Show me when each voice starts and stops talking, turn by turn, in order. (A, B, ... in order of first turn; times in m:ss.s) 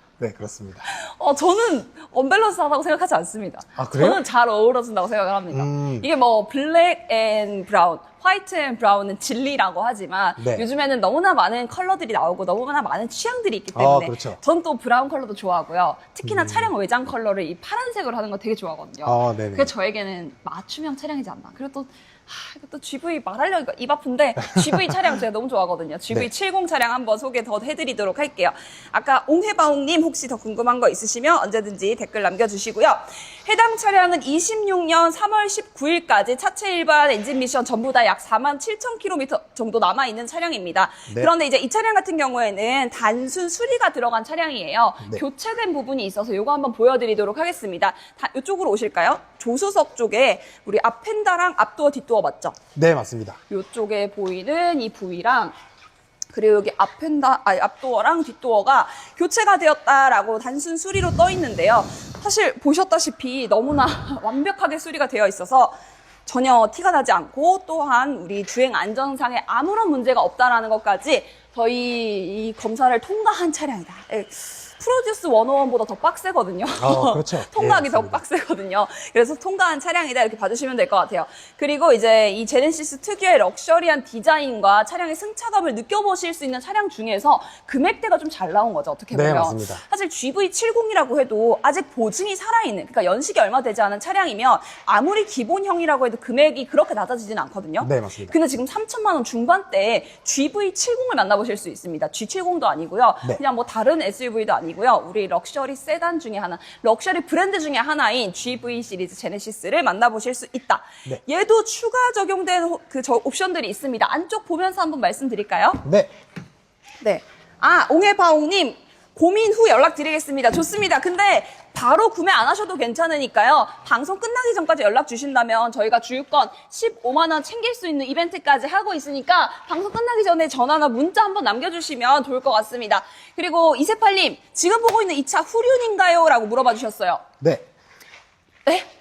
0:00.2-0:00.9 A
0:00.9-0:52.6 B
0:03.8-0:04.2 A
0:05.5-0:06.1 A
0:10.4-0:10.7 A
0:13.8-0:14.4 A
0:16.2-0:16.7 A
0:19.0-0:19.7 A
0:52.8-0:53.4 A
0:53.5-0:55.5 B
0:56.3-1:05.8 B
1:06.3-1:55.8 B
1:16.8-1:18.2 A
1:29.1-1:29.8 A
1:37.8-1:38.4 A
1:55.8-1:56.1 A
1:57.0-2:17.2 B
2:17.4-2:17.7 A